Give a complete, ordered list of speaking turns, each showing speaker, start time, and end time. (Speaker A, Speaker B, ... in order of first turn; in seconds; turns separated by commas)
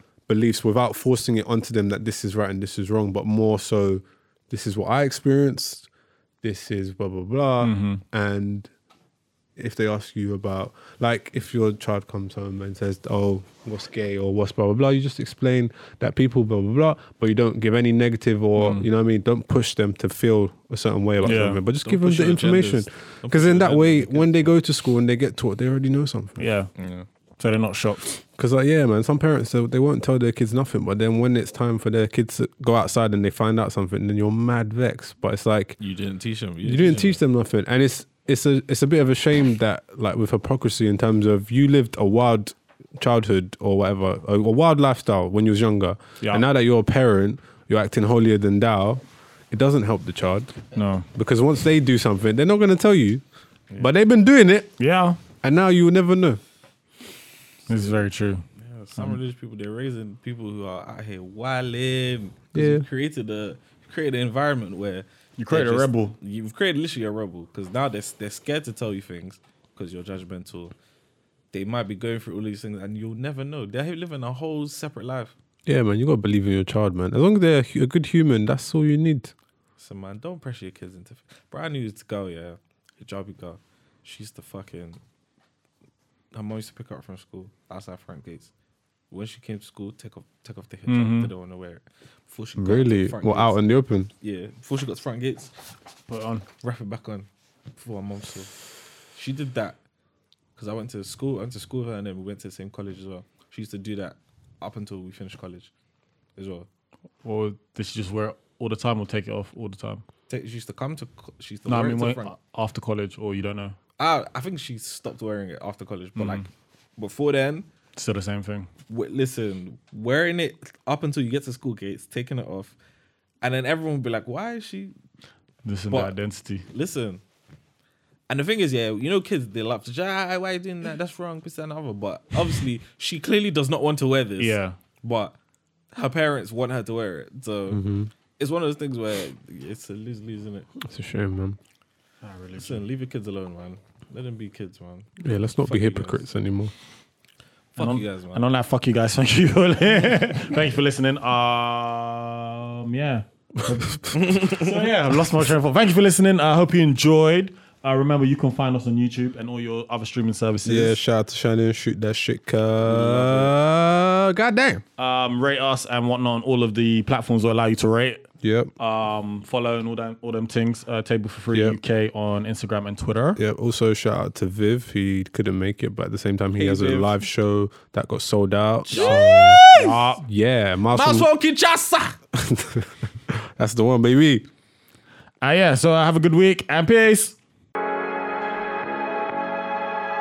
Speaker A: 0.3-5.9, Speaker A: 6.4-8.7, Speaker B: 7.6-8.0, Speaker A: 9.6-26.4, Speaker B: 18.6-18.9, Speaker C: 21.2-24.5, Speaker B: 21.2-21.6, Speaker B: 26.4-26.7, Speaker C: 26.8-27.1, Speaker B: 27.4-28.1, Speaker A: 28.1-35.8, Speaker C: 35.8-37.2, Speaker A: 36.6-53.2, Speaker B: 50.7-51.1, Speaker A: 53.8-54.7, Speaker B: 54.8-55.2, Speaker A: 55.4-56.4, Speaker B: 57.7-58.4, Speaker C: 58.5-70.7, Speaker A: 62.5-62.8, Speaker B: 65.4-66.2, Speaker C: 71.5-75.3, Speaker A: 75.7-79.3, Speaker C: 79.8-85.0, Speaker C: 86.3-88.5, Speaker C: 89.1-93.6, Speaker B: 90.9-91.3, Speaker A: 92.5-94.1, Speaker C: 94.2-95.5, Speaker B: 96.1-96.5, Speaker C: 96.6-98.5, Speaker C: 99.1-99.8, Speaker C: 100.5-105.7, Speaker C: 106.3-106.7, Speaker B: 107.2-110.0, Speaker C: 110.3-112.3, Speaker B: 111.7-113.8, Speaker C: 114.0-117.7, Speaker B: 116.2-116.5, Speaker B: 118.0-118.7, Speaker C: 118.9-122.8, Speaker C: 123.4-124.9, Speaker B: 125.6-126.7, Speaker C: 125.9-126.1, Speaker C: 126.7-127.2, Speaker C: 128.3-135.3, Speaker B: 134.4-134.8, Speaker C: 135.9-137.8, Speaker A: 137.7-138.1, Speaker C: 138.4-140.7, Speaker A: 140.8-141.6, Speaker B: 142.2-142.8, Speaker C: 142.6-146.2, Speaker A: 145.2-146.7, Speaker C: 147.8-148.4, Speaker B: 147.8-161.0, Speaker C: 154.2-154.6, Speaker A: 160.6-164.8, Speaker C: 162.8-163.6, Speaker B: 165.0-168.2, Speaker A: 168.4-168.7, Speaker B: 168.8-173.4, Speaker A: 171.5-171.8, Speaker A: 173.4-181.3, Speaker C: 176.6-177.2, Speaker C: 178.9-180.0, Speaker B: 178.9-180.2, Speaker C: 180.9-182.2, Speaker A: 182.3-184.5, Speaker B: 185.4-187.4